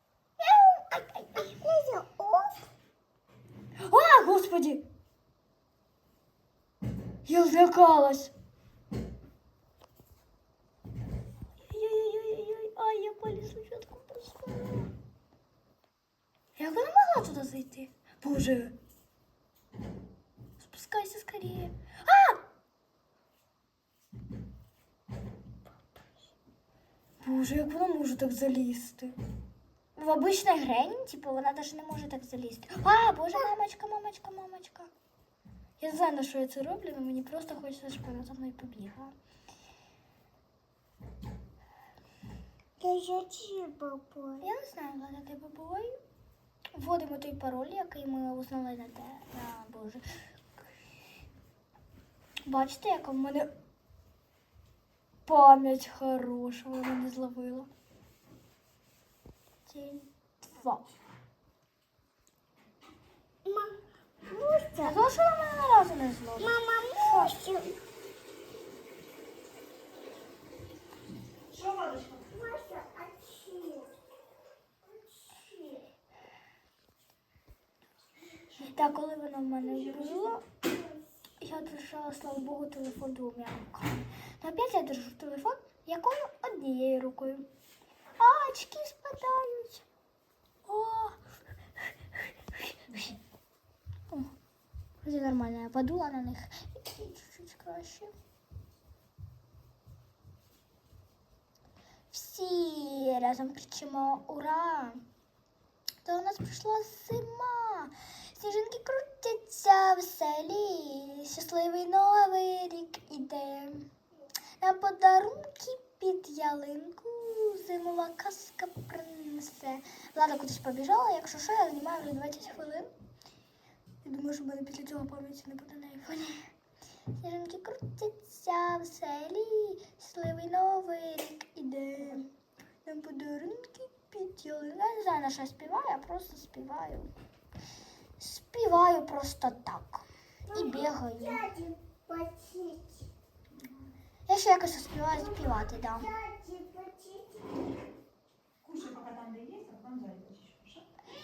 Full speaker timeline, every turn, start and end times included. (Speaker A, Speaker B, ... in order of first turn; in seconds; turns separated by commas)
Speaker A: 0.4-1.6, Speaker B: 1.6-2.7, Speaker A: 3.8-4.8, Speaker A: 7.3-8.3, Speaker A: 11.7-14.9, Speaker A: 16.6-18.8, Speaker A: 20.6-22.4, Speaker A: 27.2-29.1, Speaker A: 30.0-34.9, Speaker A: 35.8-39.1, Speaker B: 42.8-44.5, Speaker A: 44.4-46.0, Speaker A: 46.8-50.1, Speaker A: 52.5-53.5, Speaker A: 55.3-57.7, Speaker A: 59.7-60.9, Speaker B: 63.5-65.0, Speaker A: 64.8-67.3, Speaker B: 66.4-67.8, Speaker C: 71.5-72.2, Speaker B: 72.2-74.0, Speaker B: 75.3-75.9, Speaker A: 78.6-80.5, Speaker A: 81.4-87.5, Speaker A: 88.2-89.9, Speaker A: 90.7-91.2, Speaker A: 92.6-93.2, Speaker A: 95.0-98.1, Speaker A: 102.1-105.0, Speaker A: 106.0-113.9, Speaker A: 114.6-122.9, Speaker A: 124.0-126.5, Speaker A: 127.1-132.3, Speaker A: 132.9-137.1, Speaker A: 138.2-141.5, Speaker B: 140.5-143.1, Speaker A: 144.3-146.1, Speaker B: 145.1-147.8, Speaker C: 148.6-150.9